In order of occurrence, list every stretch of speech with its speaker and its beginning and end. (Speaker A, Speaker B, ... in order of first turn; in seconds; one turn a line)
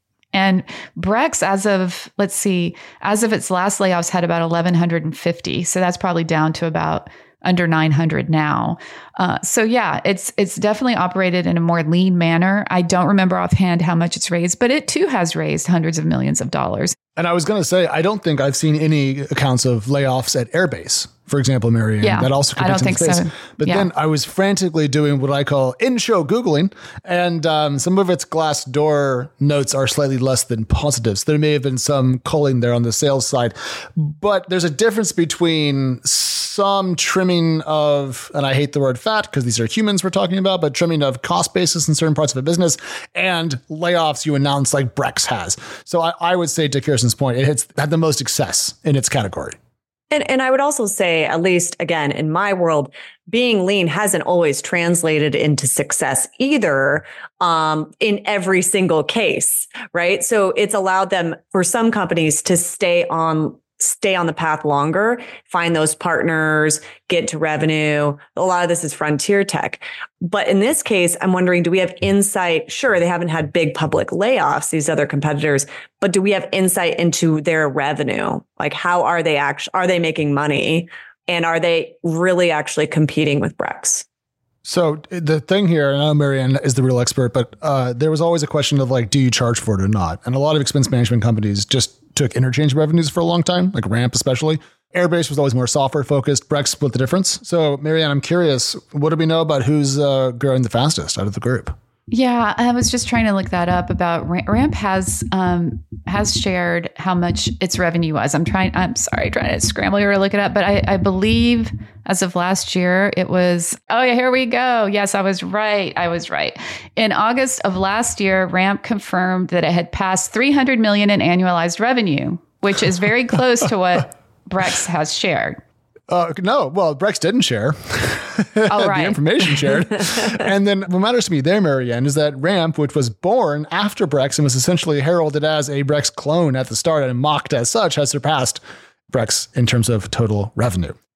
Speaker A: 0.3-16.9
Speaker B: 17.1-49.5
Speaker A: 22.0-23.9
Speaker C: 50.1-84.0
Speaker B: 84.6-101.7
Speaker A: 102.1-125.6
Speaker B: 126.1-138.6
Speaker A: 128.7-129.2
Speaker B: 139.1-140.9